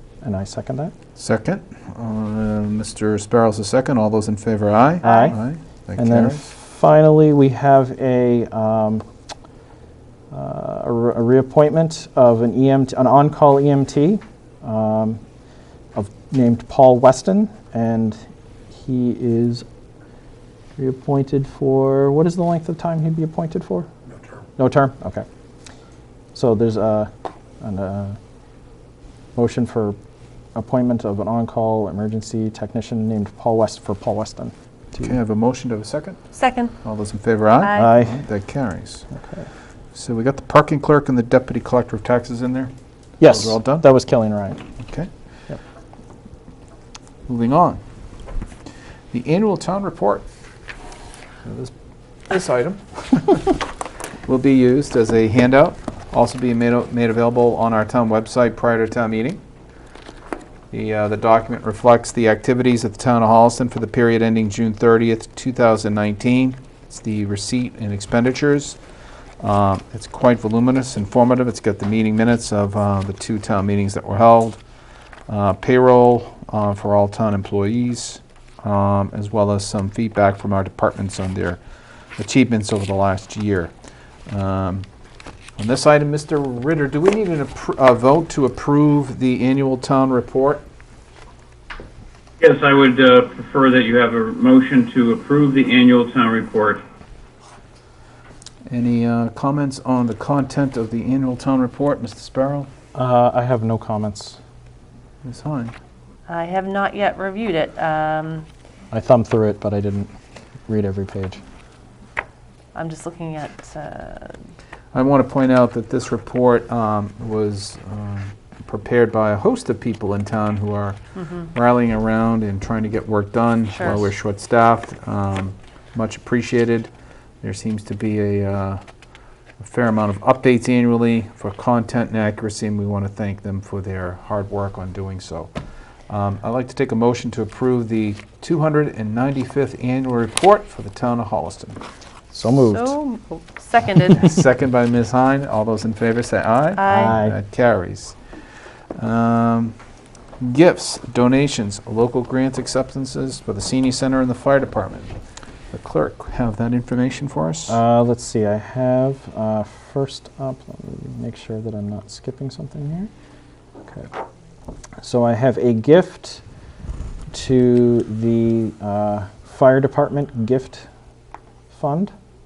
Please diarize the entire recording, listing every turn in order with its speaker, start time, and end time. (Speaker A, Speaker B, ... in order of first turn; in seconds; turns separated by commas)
Speaker A: 0.2-0.9, Speaker B: 1.1-6.5, Speaker C: 5.0-5.3, Speaker A: 5.0-5.4, Speaker A: 6.0-9.0, Speaker A: 10.3-15.2, Speaker A: 15.9-18.2, Speaker A: 18.7-19.6, Speaker A: 20.8-23.9, Speaker A: 24.6-25.2, Speaker A: 26.3-28.2, Speaker A: 29.4-30.0, Speaker A: 30.5-35.0, Speaker B: 35.0-36.2, Speaker C: 36.3-36.7, Speaker B: 36.8-39.0, Speaker C: 37.6-37.9, Speaker A: 37.7-38.2, Speaker B: 39.9-42.7, Speaker A: 43.2-44.6, Speaker B: 43.2-43.9, Speaker B: 44.8-45.1, Speaker B: 47.3-47.8, Speaker B: 49.1-50.2, Speaker B: 51.4-51.7, Speaker B: 52.3-53.6, Speaker B: 54.3-59.4, Speaker B: 60.7-68.8, Speaker B: 69.4-74.6, Speaker B: 75.3-81.6, Speaker B: 82.2-83.7, Speaker B: 84.3-84.8, Speaker B: 85.6-90.6, Speaker D: 92.4-96.8, Speaker B: 98.7-102.7, Speaker A: 102.9-104.4, Speaker B: 105.2-105.7, Speaker C: 106.3-108.5, Speaker A: 108.9-110.1, Speaker A: 110.7-111.4, Speaker C: 112.7-114.4, Speaker B: 114.9-121.0, Speaker B: 121.5-126.9, Speaker C: 123.7-124.1, Speaker B: 127.4-128.8, Speaker B: 129.6-135.5, Speaker B: 136.1-141.8, Speaker A: 142.3-142.9, Speaker C: 142.6-144.3, Speaker B: 144.1-148.2, Speaker C: 146.8-147.2, Speaker A: 146.9-147.4, Speaker B: 149.0-149.7, Speaker B: 150.4-155.1, Speaker B: 155.7-157.8, Speaker A: 157.7-163.1, Speaker A: 165.0-166.4, Speaker A: 167.3-170.9, Speaker A: 171.7-172.1